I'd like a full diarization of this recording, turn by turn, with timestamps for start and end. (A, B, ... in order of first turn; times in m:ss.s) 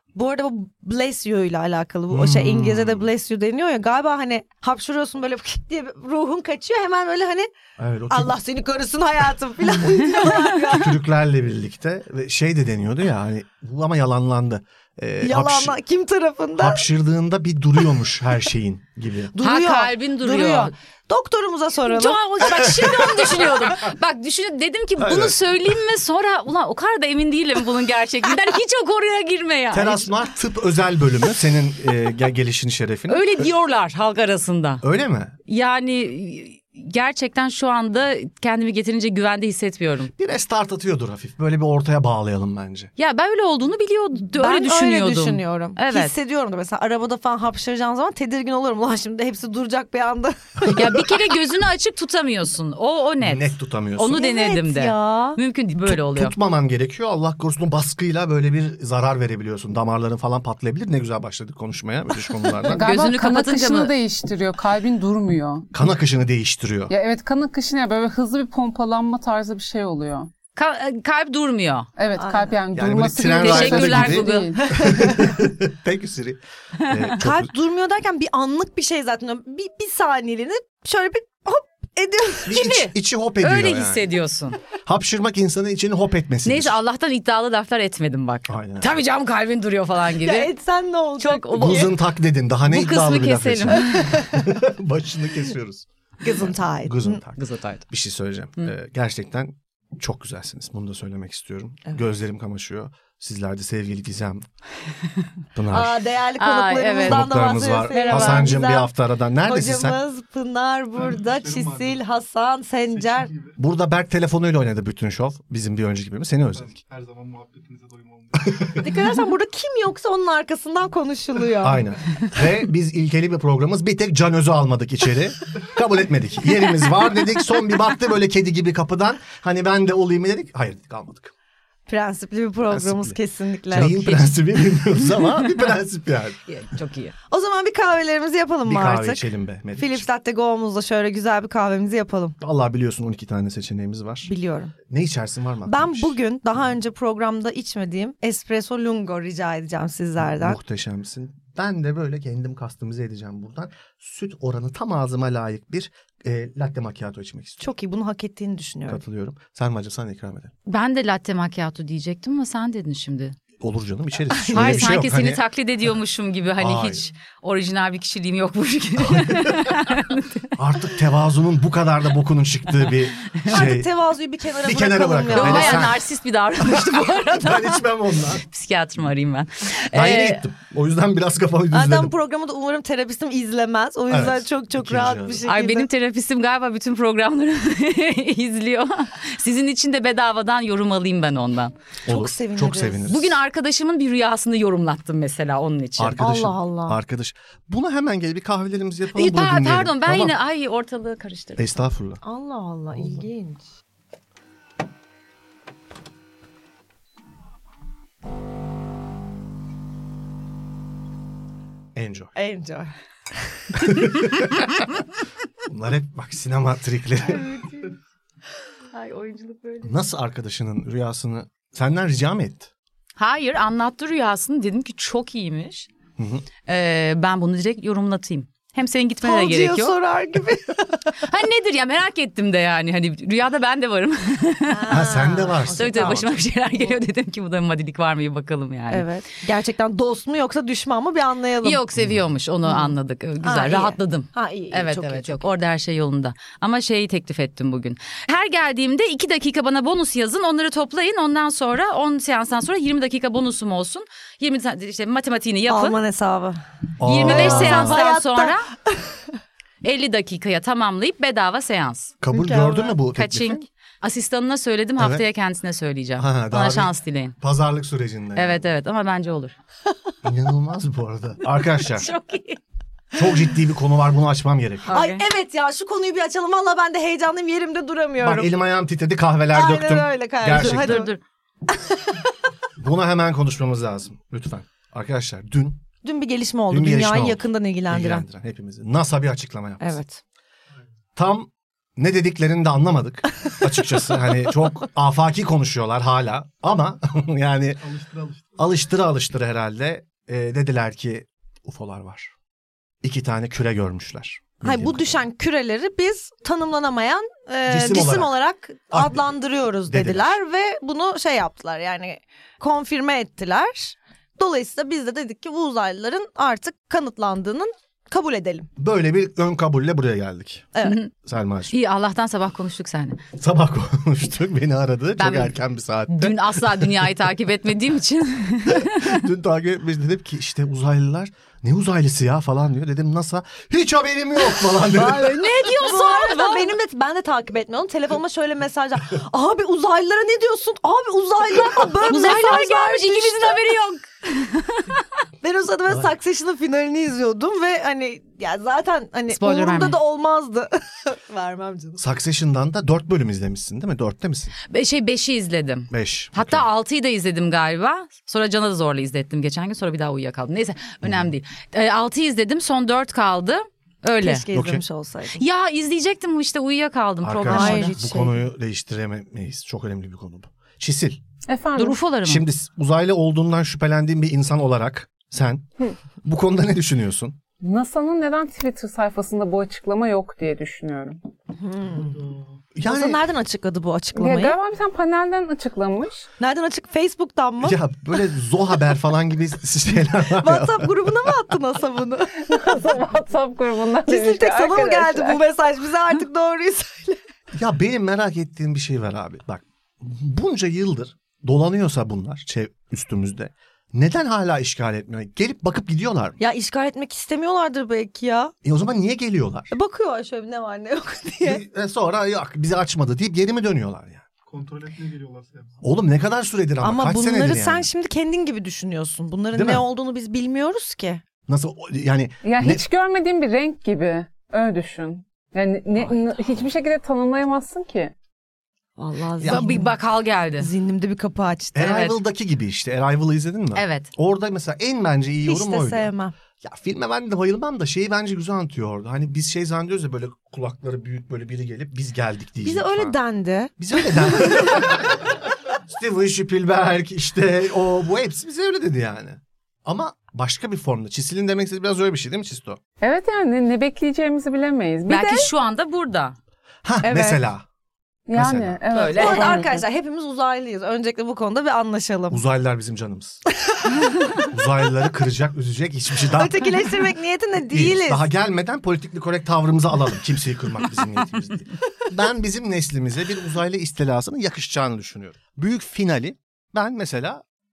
0:00.2-0:07.5 A
0:02.1-0:03.1 B
0:07.8-0:08.3 B
0:08.1-0:11.0 A
0:10.7-0:15.8 B
0:15.2-0:16.8 A
0:16.6-0:19.4 B
0:19.3-0:22.2 A
0:19.4-0:20.7 C
0:21.9-0:30.1 C
0:22.6-0:23.7 B
0:25.0-0:25.4 B
0:29.7-0:33.3 B
0:33.1-0:34.8 C
0:34.8-0:35.4 B
0:35.5-0:40.1 C
0:40.2-0:42.9 B
0:43.0-0:46.1 C
0:44.4-0:51.1 A
0:50.7-0:56.4 C
0:53.2-0:54.2 B
0:54.1-0:55.4 A
0:55.9-1:02.8 B
1:02.7-1:03.9 C
1:02.7-1:05.7 D
1:05.7-1:06.9 B
1:06.9-1:10.3 D
1:10.6-1:11.9 C
1:12.0-1:14.7 D
1:12.2-1:12.6 A
1:12.7-1:17.5 B
1:13.4-1:14.6 C
1:14.6-1:15.2 A
1:16.8-1:17.1 C
1:17.2-1:22.6 A
1:22.4-1:24.1 B
1:22.5-1:24.6 C
1:24.8-1:26.8 B
1:26.4-1:30.5 C
1:28.5-1:29.0 B
1:30.2-1:31.9 A
1:31.2-1:31.9 C
1:31.6-1:35.9 B
1:32.7-1:34.1 C
1:33.8-1:34.4 A
1:36.2-1:37.2 A
1:36.8-1:44.5 B
1:37.4-1:37.8 C
1:45.6-1:46.0 B
1:45.7-1:48.9 A
1:46.4-1:47.3 C
1:47.0-1:50.0 B
1:47.9-1:48.6 C
1:49.4-1:53.3 A
1:51.0-1:52.0 E
1:52.9-1:53.6 E
1:53.6-1:56.8 B
1:56.5-1:58.9 E
1:58.8-2:01.8 A
2:01.6-2:11.3 B
2:11.9-2:14.2 A
2:12.7-2:13.2 B
2:13.7-2:16.4 B
2:13.8-2:14.2 C
2:16.5-2:17.2 C
2:17.3-2:22.4 A
2:18.7-2:20.1 B
2:22.4-2:24.3 B
2:24.3-2:24.8 A
2:24.9-2:26.2 B
2:25.7-2:30.6 A
2:30.2-2:37.6 B
2:37.6-2:39.0 A
2:38.9-2:40.5 B
2:40.7-2:43.4 C
2:43.6-2:45.4 B
2:44.4-2:44.9 A
2:44.5-2:50.5 C
2:46.6-2:47.0 B
2:49.0-2:50.0 B
2:50.5-2:53.9 B
2:53.4-2:55.9 A
2:54.6-2:56.0 B
2:55.3-2:57.8 C
2:56.6-2:58.4 B
2:58.4-3:00.4 C
2:59.9-3:02.1 B
3:01.7-3:05.9 A
3:04.1-3:05.4 B
3:05.5-3:11.7 C
3:12.1-3:13.0 A
3:12.1-3:13.4 B
3:13.1-3:16.2 C
3:16.0-3:20.4 B
3:16.2-3:17.0 A
3:19.1-3:21.8 C
3:21.6-3:22.2 B
3:22.2-3:23.6 A
3:32.0-3:32.3 B
3:32.4-3:32.9 A
3:33.8-3:34.5 B
3:35.7-3:37.6 B
3:38.9-3:40.0 C
3:39.8-3:42.7 B
3:43.2-3:45.9 C
3:46.2-3:46.5 B
3:46.7-3:50.0 C
3:49.2-3:51.2 A
3:51.2-3:55.0 C
3:54.7-3:56.2 A
3:54.9-3:56.3 B
3:55.8-3:59.1 C
3:58.9-4:01.8 A
4:01.6-4:16.0 C
4:02.7-4:05.4 A
4:15.7-4:16.6 A
4:17.0-4:18.0 B
4:17.0-4:18.7 C
4:17.2-4:19.0 A
4:19.8-4:22.2 C
4:22.2-4:23.6 B
4:22.3-4:23.0 A
4:23.1-4:27.4 C
4:25.0-4:25.2 B
4:26.2-4:28.6 B
4:28.4-4:29.5 C
4:30.2-4:32.1 B
4:31.9-4:32.6 C
4:33.1-4:34.9 B
4:34.9-4:35.2 C
4:34.9-4:38.5 A
4:38.2-4:41.1 B
4:39.5-4:41.1 A
4:40.5-4:41.2 C
4:41.7-4:42.2 A
4:42.8-4:45.8 B
4:46.0-4:48.2 A
4:46.7-4:50.0 B
4:49.8-4:50.2 A
4:51.2-4:57.8 B
4:57.8-4:58.6 E
4:58.6-5:02.3 B
5:03.0-5:05.2 B
5:04.6-5:18.7 A
5:07.7-5:08.3 B
5:08.9-5:09.3 B
5:09.9-5:10.4 B
5:18.8-5:21.7 B
5:20.8-5:21.1 C
5:21.7-5:23.2 C
5:23.4-5:26.8 B
5:25.2-5:25.6 C
5:26.1-5:29.2 C
5:28.7-5:35.4 B
5:34.8-5:43.6 A
5:35.2-5:36.7 C
5:42.1-5:45.0 C
5:45.4-5:52.0 A
5:49.3-5:50.0 C
5:52.0-5:54.6 B
5:54.7-6:04.5 C
5:55.9-5:56.7 B
6:01.0-6:01.3 B
6:04.2-6:05.4 A
6:04.5-6:04.8 B
6:05.4-6:07.9 C
6:07.2-6:11.2 B
6:07.5-6:08.4 A
6:11.5-6:12.0 D
6:11.8-6:12.4 C
6:12.2-6:15.6 B
6:16.2-6:17.4 B
6:17.6-6:21.2 D
6:21.6-6:22.2 A
6:22.0-6:22.4 E
6:22.8-6:23.2 B
6:22.8-6:24.6 A
6:24.2-6:26.3 D
6:26.4-6:27.8 A
6:27.6-6:31.4 B
6:30.3-6:32.6 A
6:32.5-6:35.4 D
6:34.1-6:37.2 A
6:37.5-6:46.4 B
6:46.4-6:48.5 A
6:48.6-6:49.7 B
6:49.7-6:51.6 A
6:51.4-6:54.2 B
6:54.5-6:55.8 E
6:55.8-6:57.9 B
6:56.8-7:01.2 A
6:59.5-6:59.8 B
7:01.5-7:02.9 B
7:02.4-7:08.1 D
7:09.0-7:09.9 A
7:09.4-7:09.8 B
7:09.4-7:10.7 C
7:10.6-7:12.1 A
7:11.7-7:16.1 B
7:11.8-7:12.1 C
7:13.8-7:14.1 C
7:15.4-7:16.3 A
7:16.6-7:23.2 B
7:22.6-7:24.8 A
7:23.8-7:32.8 B
7:33.0-7:35.5 D
7:35.1-7:36.4 C
7:36.8-7:37.6 B
7:37.0-7:37.4 A
7:38.3-7:39.7 D
7:38.3-7:38.8 B
7:38.9-7:39.7 C
7:39.1-7:42.4 A
7:42.3-7:43.4 B
7:44.5-7:46.9 B
7:46.3-7:48.2 A
7:47.7-7:57.4 B